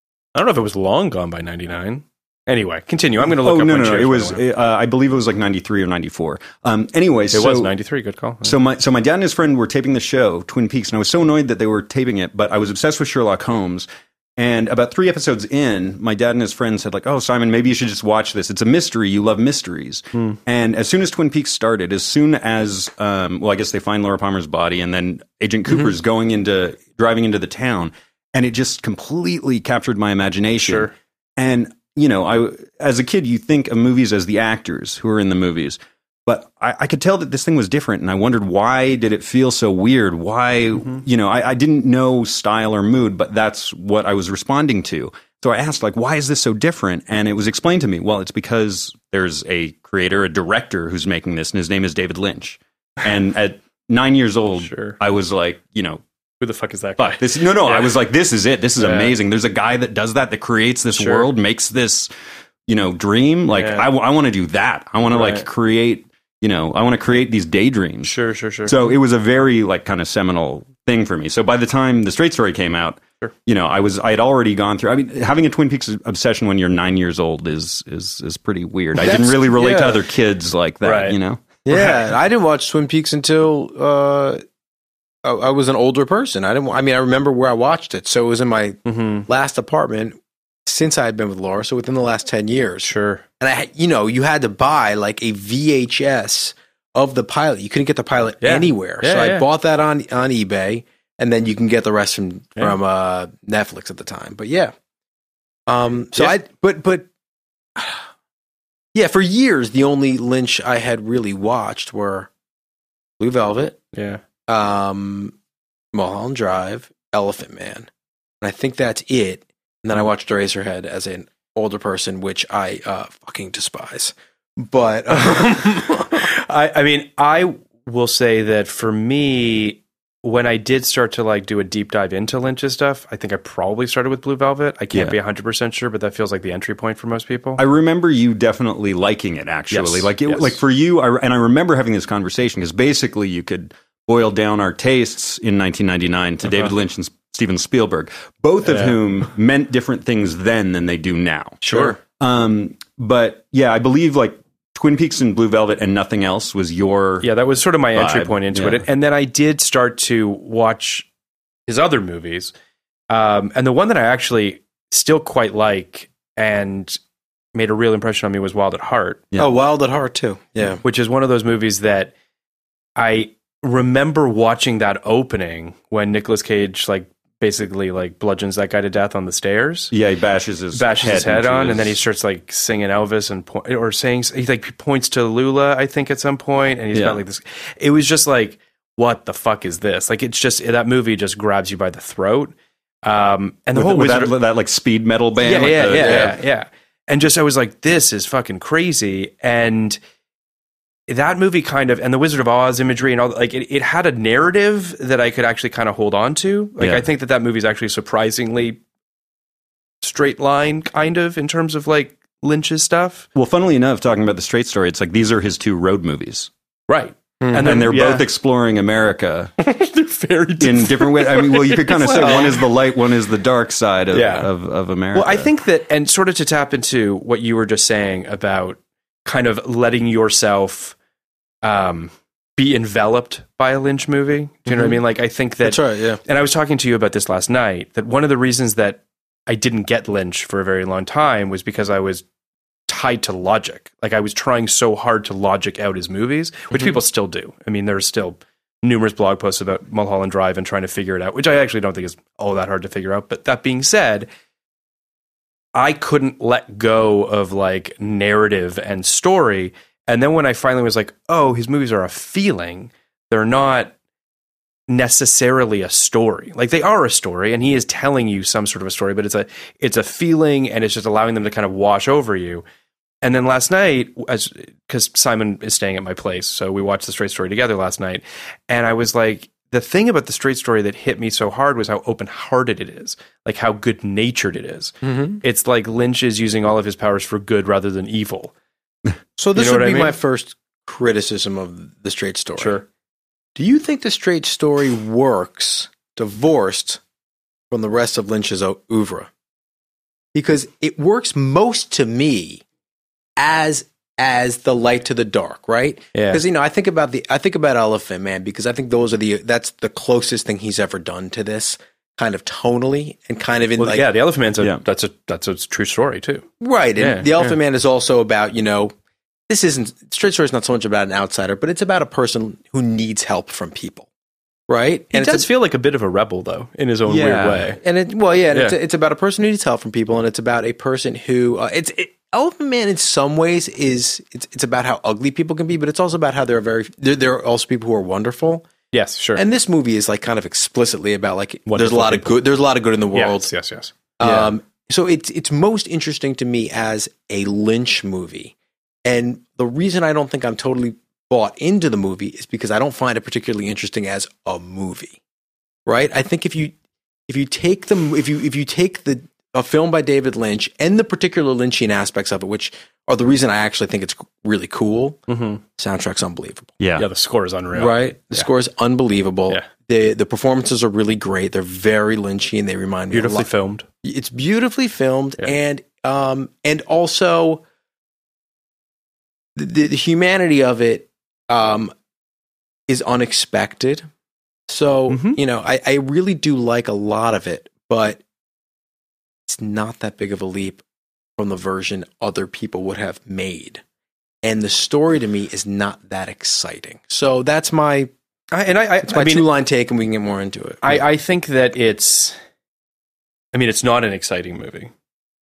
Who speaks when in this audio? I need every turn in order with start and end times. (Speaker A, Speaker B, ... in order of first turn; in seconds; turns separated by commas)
Speaker A: 0.3-4.4, Speaker B: 3.4-7.7, Speaker A: 7.3-8.6, Speaker B: 8.4-56.0, Speaker A: 30.6-30.9, Speaker A: 54.6-55.0, Speaker A: 56.4-58.0, Speaker B: 57.0-62.1, Speaker A: 58.8-59.1, Speaker A: 61.0-61.3, Speaker B: 62.7-81.4, Speaker A: 63.5-63.9, Speaker A: 65.1-65.5, Speaker A: 68.0-68.8, Speaker C: 79.0-80.0, Speaker A: 80.8-81.2, Speaker C: 81.7-84.4, Speaker A: 81.7-82.0, Speaker C: 85.2-104.7, Speaker A: 88.8-89.2, Speaker A: 92.8-93.2, Speaker A: 98.4-99.5, Speaker C: 105.7-107.1, Speaker C: 107.8-108.0, Speaker C: 108.9-112.3, Speaker C: 113.2-113.8, Speaker A: 113.9-114.2, Speaker C: 114.5-115.3, Speaker C: 115.9-117.9, Speaker C: 118.4-126.2, Speaker A: 125.1-137.6, Speaker B: 137.6-157.3, Speaker A: 139.7-140.6, Speaker A: 146.5-146.7, Speaker A: 148.6-149.0, Speaker A: 151.6-151.9, Speaker A: 157.2-161.1, Speaker B: 157.9-158.9, Speaker A: 161.7-162.5, Speaker A: 163.1-167.0, Speaker A: 167.5-169.3, Speaker C: 169.4-170.8, Speaker A: 170.8-172.1, Speaker A: 173.0-179.9, Speaker B: 179.9-182.0, Speaker A: 180.7-194.3, Speaker B: 186.9-187.2, Speaker B: 193.7-196.3, Speaker A: 195.4-200.0, Speaker C: 195.6-196.3, Speaker A: 201.1-208.8, Speaker B: 206.8-207.1, Speaker A: 210.0-213.3, Speaker B: 213.3-216.5, Speaker A: 216.9-218.2, Speaker C: 217.4-217.9, Speaker B: 217.6-219.5, Speaker A: 219.6-222.7, Speaker B: 220.6-225.5, Speaker C: 222.2-222.5, Speaker A: 224.1-224.5, Speaker A: 225.1-230.9, Speaker A: 231.6-242.2, Speaker C: 234.7-235.0, Speaker C: 235.6-236.2, Speaker A: 242.9-254.3, Speaker A: 255.8-263.9, Speaker A: 264.9-272.6, Speaker A: 273.2-288.5, Speaker C: 285.0-285.4, Speaker C: 289.4-292.8, Speaker A: 289.5-290.2, Speaker A: 292.6-292.8, Speaker C: 293.6-297.0, Speaker C: 297.7-299.3, Speaker C: 300.3-302.6, Speaker C: 303.4-314.1, Speaker A: 306.1-306.4, Speaker A: 313.8-317.6, Speaker C: 316.6-318.9, Speaker C: 319.5-324.1, Speaker C: 324.7-325.4, Speaker A: 325.1-327.8, Speaker B: 327.1-327.7, Speaker C: 327.8-338.6, Speaker A: 328.5-328.8, Speaker A: 338.9-339.4, Speaker C: 339.4-343.5, Speaker A: 341.7-342.4, Speaker A: 343.1-344.5, Speaker C: 344.2-348.5, Speaker C: 349.0-355.2, Speaker C: 355.9-356.7, Speaker C: 357.3-366.7, Speaker A: 365.3-365.6, Speaker B: 366.8-367.1, Speaker A: 367.0-368.5, Speaker C: 367.7-373.5, Speaker A: 373.1-373.9, Speaker C: 374.0-377.6, Speaker C: 379.6-381.9, Speaker C: 382.9-384.1, Speaker C: 384.7-388.2, Speaker A: 385.1-385.4, Speaker C: 389.5-390.8, Speaker C: 391.4-393.8, Speaker C: 394.4-398.1, Speaker A: 398.5-399.5, Speaker C: 399.0-401.0, Speaker A: 400.8-402.4, Speaker A: 403.5-404.9